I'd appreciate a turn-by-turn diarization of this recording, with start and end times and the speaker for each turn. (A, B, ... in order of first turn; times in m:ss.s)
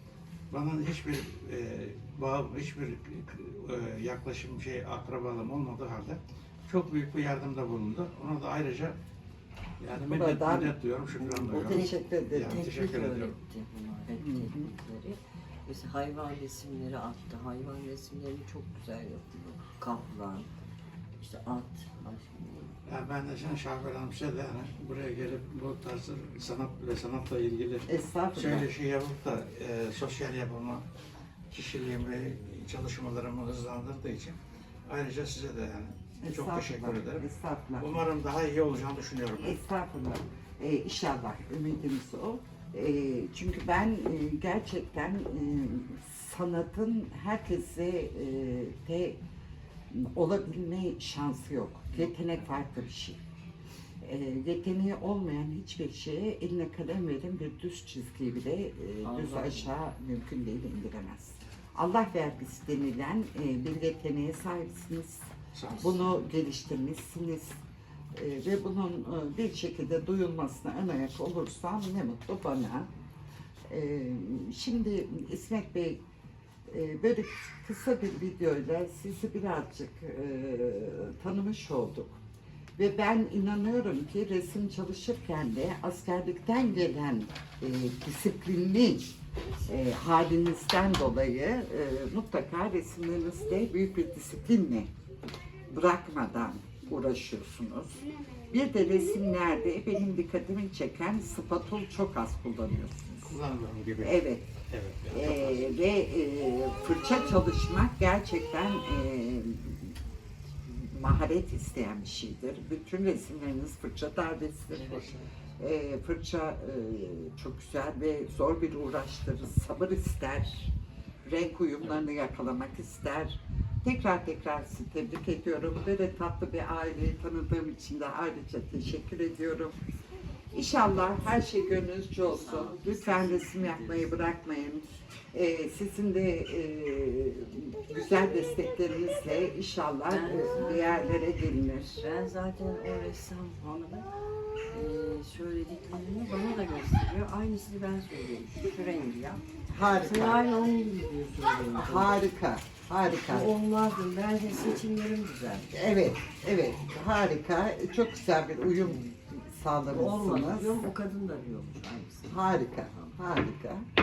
0:00.5-0:09.0 A
0:09.8-0:13.4 A
0:10.0-0:12.6 B
0:12.4-0:20.5 C
0:14.2-0:14.7 B
0:21.2-0:22.8 C
0:22.8-0:30.8 A
0:27.9-0:28.7 B
0:31.5-0:37.2 A
0:36.2-0:38.1 B
0:37.7-0:39.6 A
0:39.4-0:49.2 B
0:49.9-0:53.2 B
0:51.9-0:52.4 C
0:54.0-1:07.6 B
0:59.0-0:59.7 C
1:05.5-1:06.0 A
1:08.1-1:12.9 B
1:13.7-1:16.0 B
1:16.7-1:22.2 B
1:22.8-1:34.9 B
1:35.7-1:43.4 B
1:43.2-1:45.8 A
1:44.0-1:44.5 B
1:45.1-1:49.9 B
1:50.7-1:55.0 B
1:54.8-1:55.2 A
1:55.6-2:00.7 B
2:01.2-2:09.8 B
2:10.5-2:22.0 B
2:12.2-2:14.3 C
2:20.1-2:21.1 C
2:22.0-2:24.1 C
2:24.7-2:32.2 C
2:29.7-2:30.5 B
2:31.7-2:33.5 B
2:33.3-2:35.7 C
2:35.7-2:40.9 B
2:38.8-2:39.1 C
2:39.9-2:42.4 C
2:42.3-2:43.8 B